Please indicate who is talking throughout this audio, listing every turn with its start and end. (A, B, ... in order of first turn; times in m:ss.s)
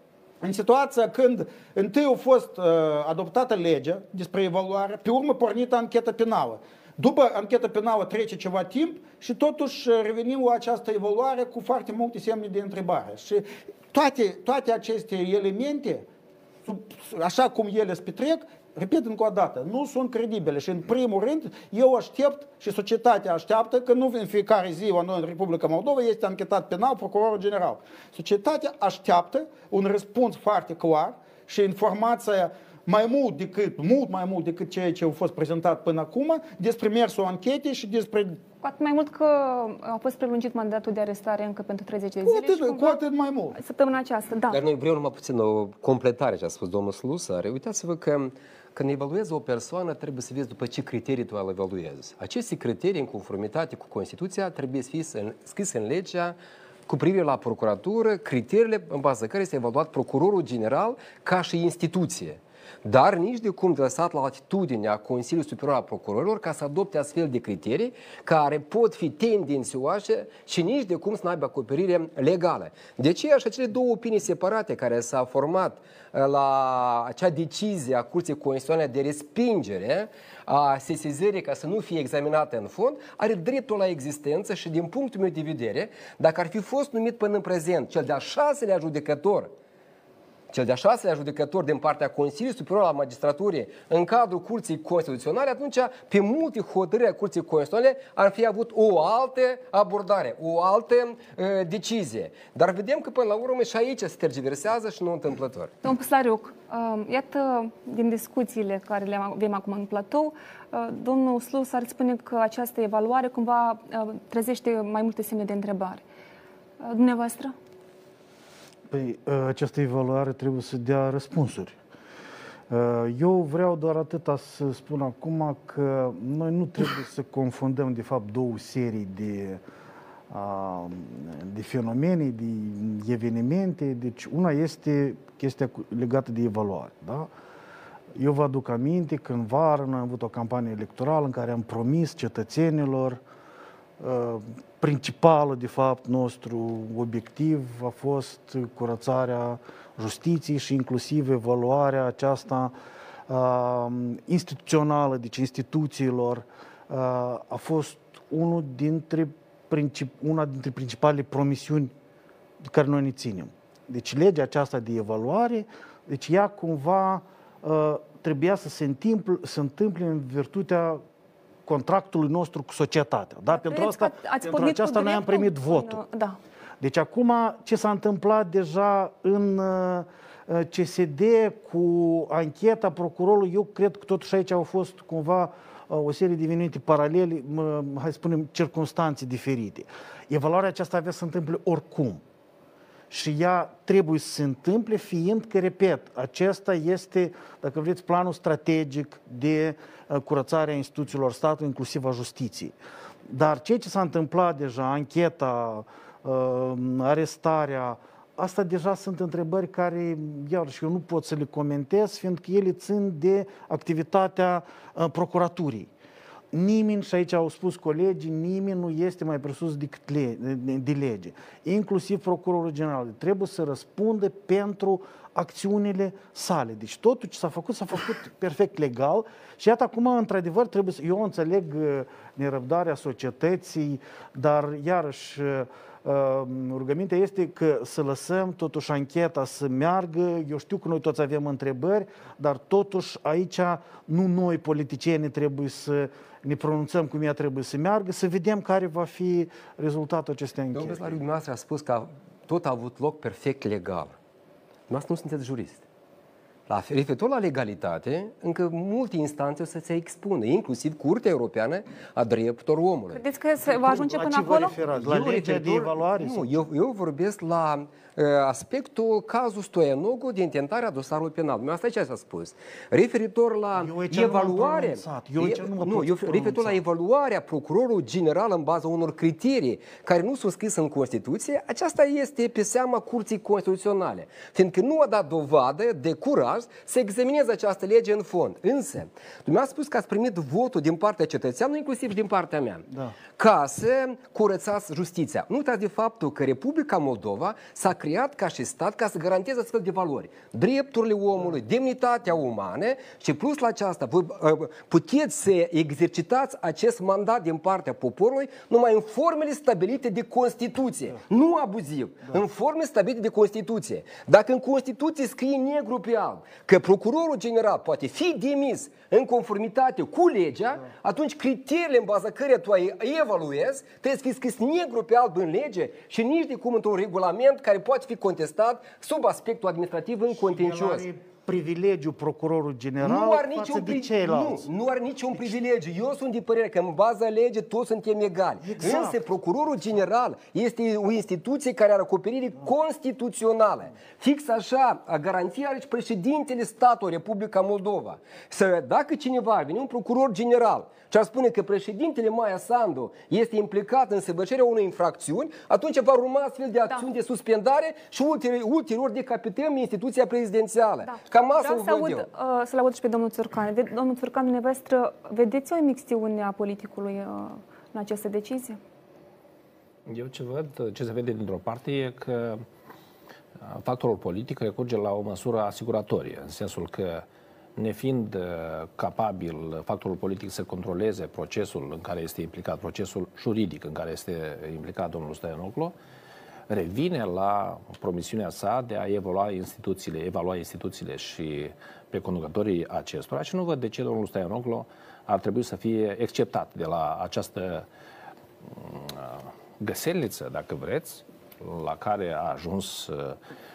0:00.4-0:16.0 A
0:16.6-0:38.4 A
0:38.6-0:43.0 B
0:42.2-0:43.6 A
0:43.5-0:44.6 B
0:44.5-0:56.4 C
0:56.9-1:29.5 C
1:30.5-1:45.7 C
1:45.8-1:56.0 B
1:56.8-1:57.5 B
1:58.9-2:01.8 D
2:02.7-2:09.6 D
2:10.3-2:17.3 D
2:18.1-2:23.2 D
2:24.0-2:32.7 D
2:33.3-2:41.9 D
2:42.6-2:51.0 D
2:51.6-2:56.0 D
2:53.5-2:56.4 B
2:56.8-3:12.2 D
3:13.1-3:22.8 D
3:23.3-3:35.9 D
3:36.5-4:11.2 D
4:10.7-4:14.1 C
4:14.9-4:15.8 C
4:16.7-4:23.2 C
4:23.1-4:24.8 B
4:23.7-4:26.6 D
4:24.9-4:52.8 C
4:33.7-4:36.8 D
4:52.9-4:53.2 D
4:53.4-5:31.1 C
5:30.4-5:34.7 D
5:33.0-6:02.3 C
5:38.6-5:39.3 D
6:01.0-6:08.8 B
6:10.1-6:12.6 E
6:13.7-6:17.2 E
6:17.8-6:26.0 E
6:26.7-6:37.8 E
6:38.6-6:43.4 E